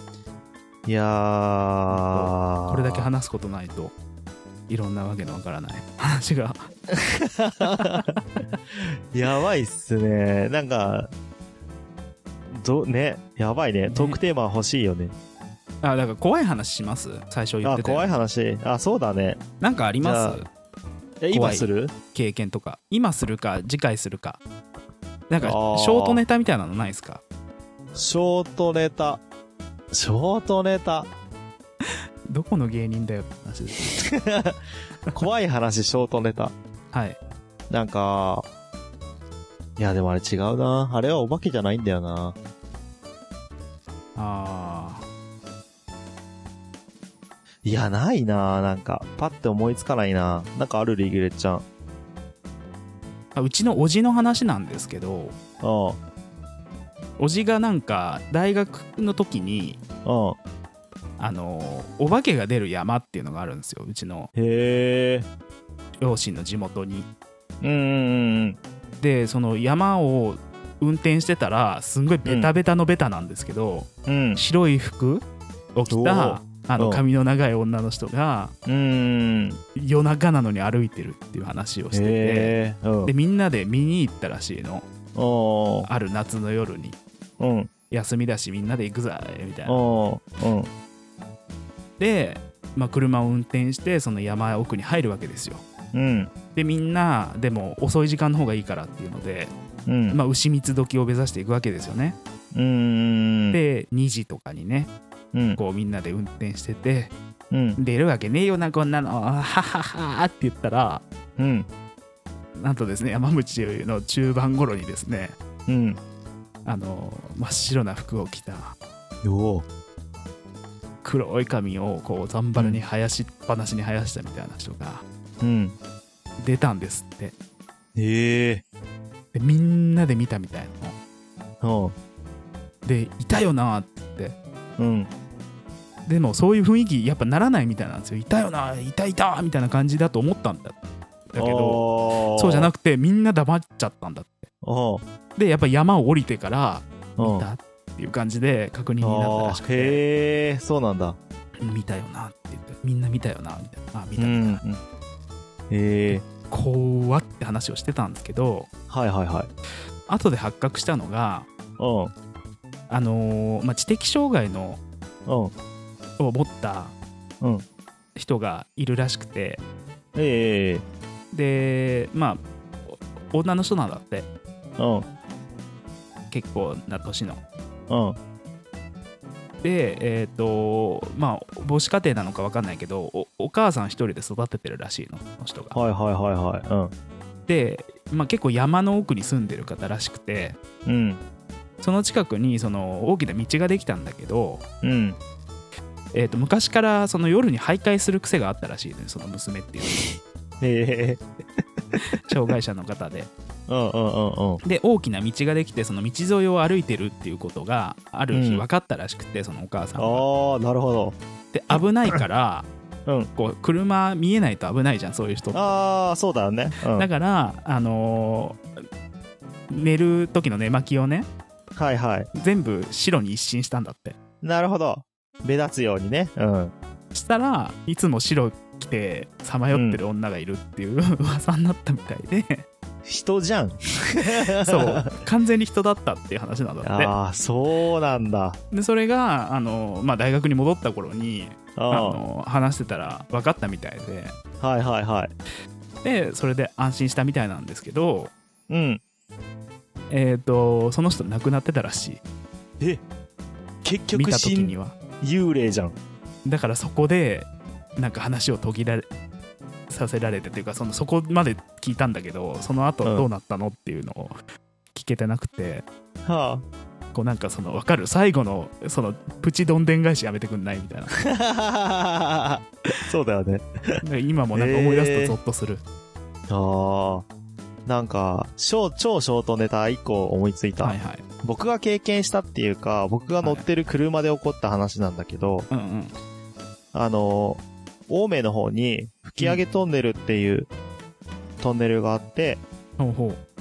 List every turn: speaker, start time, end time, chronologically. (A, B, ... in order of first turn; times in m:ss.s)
0:00.9-0:03.1 A
0:01.9-0:03.9 B
0:04.7-0:06.7 B
0:06.9-0:08.1 A
0:07.6-0:08.2 B
0:08.8-0:11.1 A
0:12.5-0:15.1 A
0:13.9-0:14.2 B
0:15.8-0:18.2 B
0:17.6-0:19.4 A
0:19.6-0:20.5 B
0:20.0-0:20.4 A
0:21.2-0:21.9 A
0:21.3-0:24.4 B
0:25.3-0:27.2 B
0:25.4-0:26.2 A
0:28.0-0:29.2 A
0:29.9-0:31.1 A
0:32.3-0:34.0 B
0:34.0-0:34.6 A
0:35.1-0:36.6 A
0:36.9-0:37.2 B
0:37.7-0:38.5 A
0:39.8-0:42.4 A
0:44.2-0:45.0 B
0:47.6-0:51.6 A
0:53.4-0:55.4 B
0:55.6-0:56.0 A
0:57.2-0:59.8 B
1:00.0-1:00.4 A
1:01.2-1:04.3 B
1:04.4-1:05.3 A
1:06.0-1:07.1 B
1:07.6-1:08.6 A
1:09.0-1:18.5 B
1:14.1-1:14.4 A
1:15.9-1:17.0 A
1:18.7-1:19.6 A
1:19.8-1:24.9 B
1:21.9-1:23.1 A
1:25.2-1:25.9 A
1:25.8-1:27.0 B
1:27.4-1:27.7 A
1:27.9-1:29.8 B
1:29.7-1:30.7 A
1:32.0-1:35.6 B
1:35.9-1:36.3 A
1:36.6-1:39.5 B
1:39.9-1:40.2 A
1:40.1-1:42.2 B
1:42.5-1:43.6 A
1:43.5-1:44.9 B
1:45.3-1:45.6 A
1:45.6-1:47.1 B
1:47.5-1:47.8 A
1:47.8-1:51.0 B
1:51.4-1:51.7 A
1:52.6-1:55.4 B
1:55.7-1:56.0 A
1:56.6-1:58.8 B
1:59.2-1:59.6 A
2:01.0-2:05.0 B
2:02.6-2:02.8 A
2:05.4-2:05.8 A
2:06.4-2:07.3 B
2:08.0-2:08.6 A
2:09.3-2:11.0 B
2:11.6-2:12.0 A
2:12.8-2:14.4 B
2:14.8-2:15.1 A
2:16.1-2:20.8 B
2:21.3-2:24.5 B
2:21.4-2:22.7 A
2:24.6-2:25.0 A
2:25.4-2:30.0 B
2:27.2-2:27.5 A
2:29.0-2:31.2 A
2:31.6-2:34.6 B
2:34.2-2:34.8 A
2:35.7-2:36.2 A
2:36.1-2:38.7 B
2:38.9-2:39.5 A
2:40.1-2:41.5 B
2:41.8-2:42.1 A
2:42.9-2:44.8 B
2:45.3-2:45.5 A
2:46.2-2:46.9 B
2:48.2-2:49.6 B
2:50.2-2:50.8 A
2:51.3-2:54.3 B
2:54.8-2:55.1 A
2:56.3-2:57.4 B
2:57.9-2:58.2 A
2:59.6-3:05.8 B
3:05.7-3:06.9 A
3:07.5-3:10.6 B
3:10.9-3:11.2 A
3:11.8-3:14.6 B
3:14.8-3:15.2 A
3:16.1-3:20.1 B
3:20.6-3:21.2 A
3:22.2-3:23.3 B
3:23.7-3:24.6 A
3:24.6-3:30.2 B
3:28.3-3:28.6 A
3:30.0-3:31.2 A
3:31.5-3:32.7 B
3:31.7-3:32.2 A
3:33.4-3:35.8 B
3:35.5-3:37.1 A
3:36.9-3:38.6 B
3:39.7-3:41.3 B
3:41.8-3:42.3 A
3:42.3-3:44.2 B
3:44.4-3:46.7 A
3:47.1-3:52.7 B
3:49.7-3:50.0 A
3:53.1-3:55.1 A
3:54.6-3:57.1 B
3:56.8-3:58.6 A
3:58.7-4:04.4 B
4:01.8-4:02.2 A
4:04.6-4:05.3 A
4:06.0-4:08.3 B
4:08.7-4:09.0 A
4:10.1-4:12.2 B
4:13.8-4:16.0 A
4:14.1-4:15.0 B
4:16.4-4:19.1 B
4:19.9-4:24.4 B
4:23.0-4:23.3 A
4:24.9-4:25.9 B
4:26.2-4:26.6 A
4:27.1-4:31.2 B
4:31.2-4:34.0 A
4:34.0-4:35.8 B
4:34.6-4:35.4 A
4:36.5-4:37.3 A
4:37.9-4:45.7 A
4:40.8-4:41.2 B
4:45.7-4:46.2 B
4:46.9-4:50.7 A
4:49.4-4:49.6 B
4:51.6-4:52.6 A
4:53.0-4:53.4 B